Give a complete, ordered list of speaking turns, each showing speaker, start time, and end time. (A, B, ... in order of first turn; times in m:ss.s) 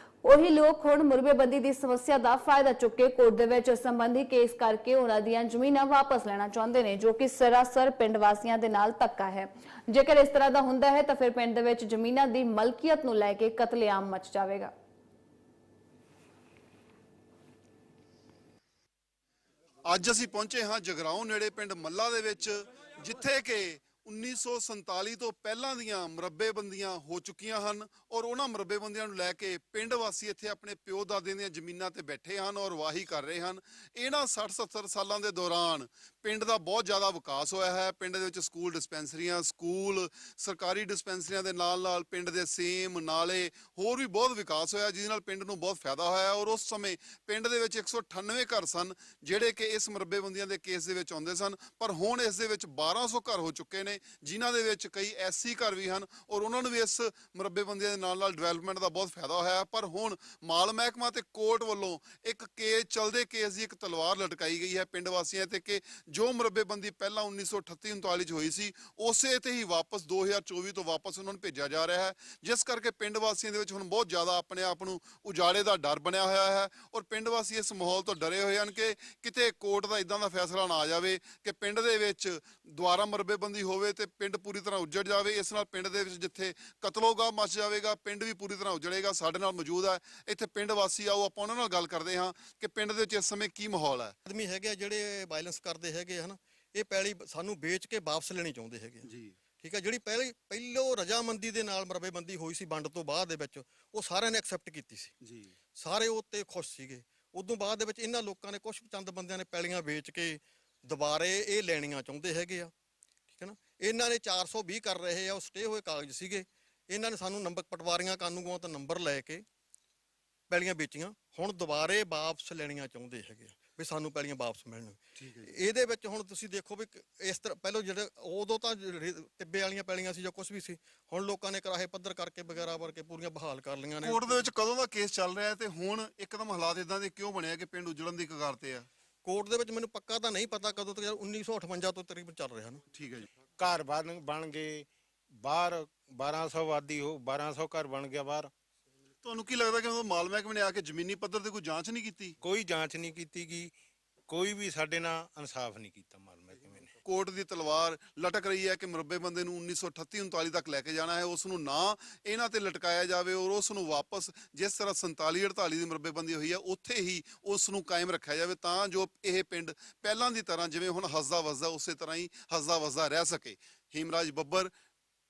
0:00.2-0:14.7 A
0:19.8-1:34.1 B
1:34.2-1:45.1 C
1:39.0-1:39.3 B
1:45.2-1:45.5 B
1:45.7-1:52.7 C
1:53.3-1:59.4 C
2:00.5-2:14.4 C
2:05.2-2:05.5 B
2:14.0-2:18.9 B
2:19.2-2:22.8 C
2:22.9-2:23.3 B
2:23.6-2:24.9 D
2:25.4-2:28.5 D
2:29.2-2:32.3 B
2:32.4-2:33.7 D
2:34.3-2:36.9 D
2:37.0-2:54.7 B